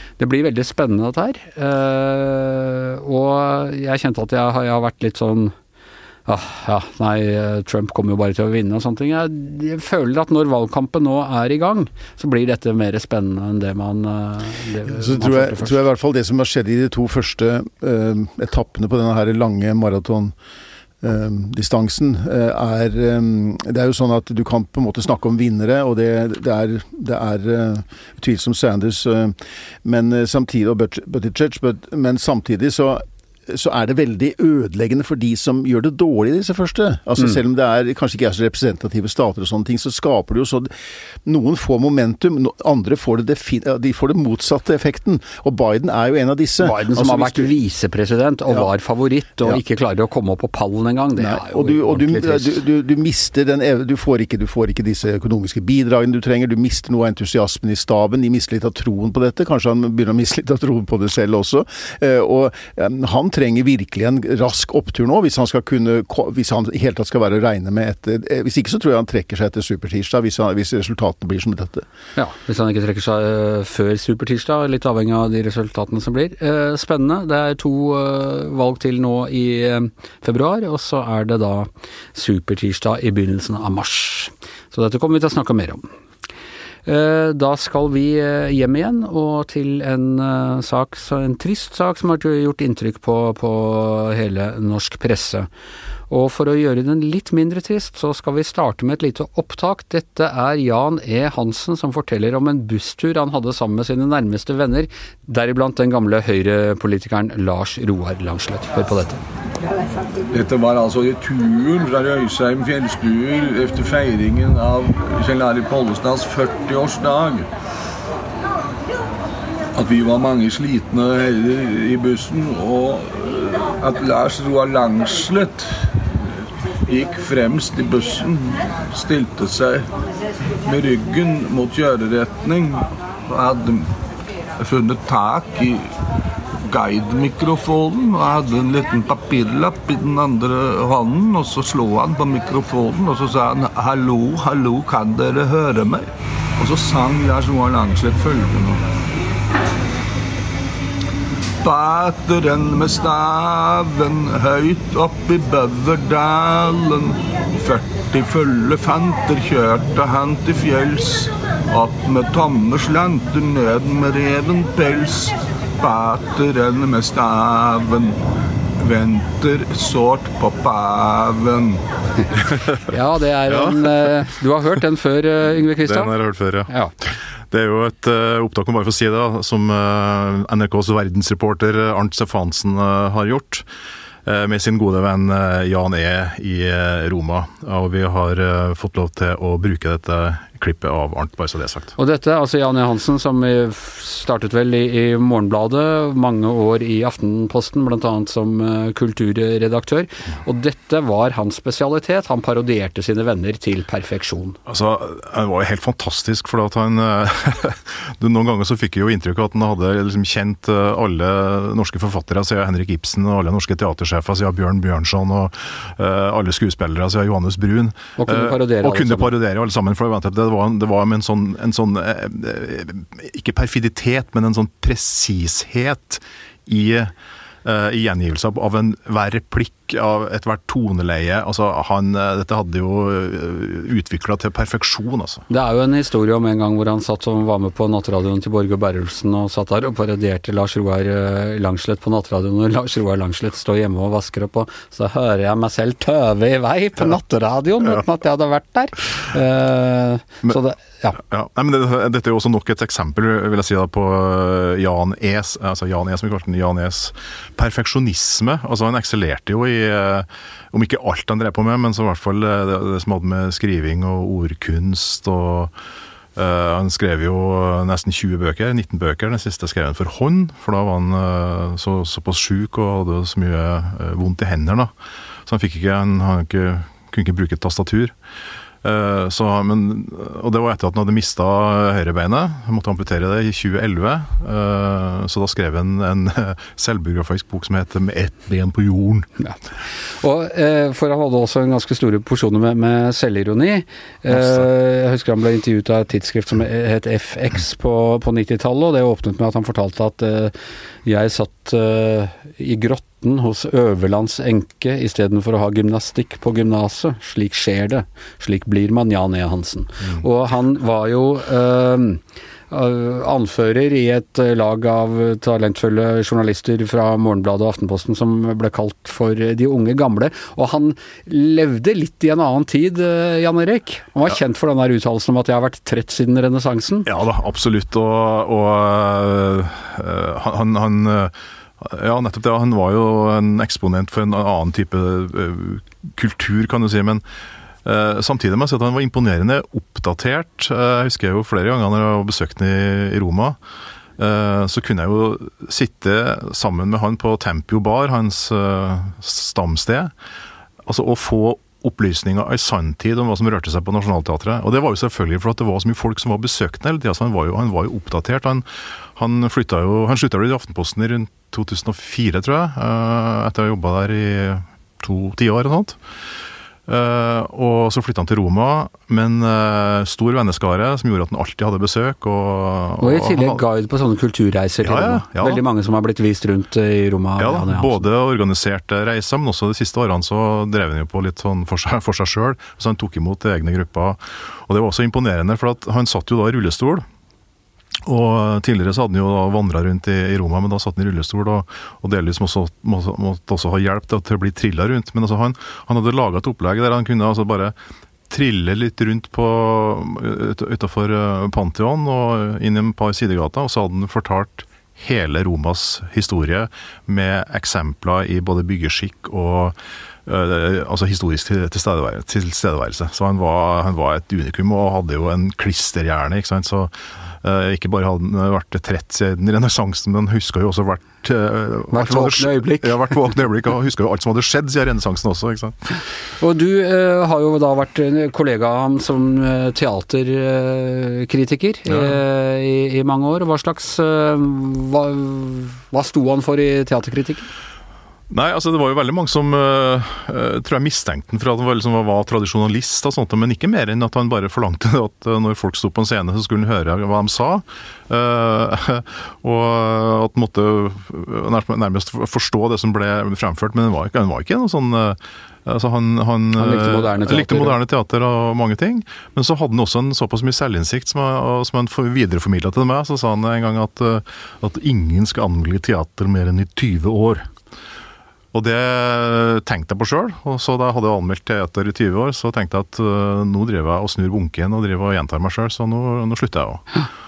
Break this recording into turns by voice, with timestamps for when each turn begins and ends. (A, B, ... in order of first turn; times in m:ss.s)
0:00.2-0:05.5 A
0:06.3-0:15.8 A
0:14.9-0:20.3 B
0:21.0-0:40.7 B
0:41.2-0:47.5 B
0:46.6-0:52.6 A
0:51.2-1:11.8 B
1:12.2-1:25.8 A
1:26.9-1:35.5 A
1:36.1-1:49.2 A
1:50.3-1:57.5 C
1:59.8-2:05.7 C
2:06.9-2:09.9 C
2:10.6-2:13.9 C
2:14.6-2:15.8 C
2:16.6-2:26.1 C
2:26.6-2:28.8 C
2:31.6-2:48.2 C
2:48.8-2:51.8 C
2:52.4-2:52.8 D
2:52.9-2:56.1 A
2:53.5-2:54.1 D
2:55.8-2:56.7 D
2:57.5-3:03.6 D
3:04.3-3:11.9 D
3:12.0-3:24.6 A
3:24.7-3:47.1 D
3:38.2-3:39.3 A
3:47.6-3:55.4 D
3:55.5-4:11.2 A
4:11.2-4:25.7 D
4:26.4-4:34.9 D
4:35.5-4:38.1 D
4:38.8-4:49.3 D
4:50.2-5:00.5 A
4:54.3-4:54.6 D
5:01.0-5:27.1 A
5:27.1-5:37.2 D
5:37.8-5:43.6 D
5:44.2-5:50.1 D
5:50.9-5:58.6 D
5:59.2-6:06.0 D
6:06.9-6:13.6 D
6:13.0-6:18.1 A
6:14.8-6:15.6 D
6:17.4-6:27.0 D
6:28.1-6:37.8 D
6:38.3-6:56.9 D
6:57.4-7:06.0 D
7:01.9-7:03.1 A
7:06.4-7:17.5 A
7:11.9-7:12.2 D
7:18.3-7:47.5 D
7:36.6-7:37.8 A
7:48.5-7:56.8 D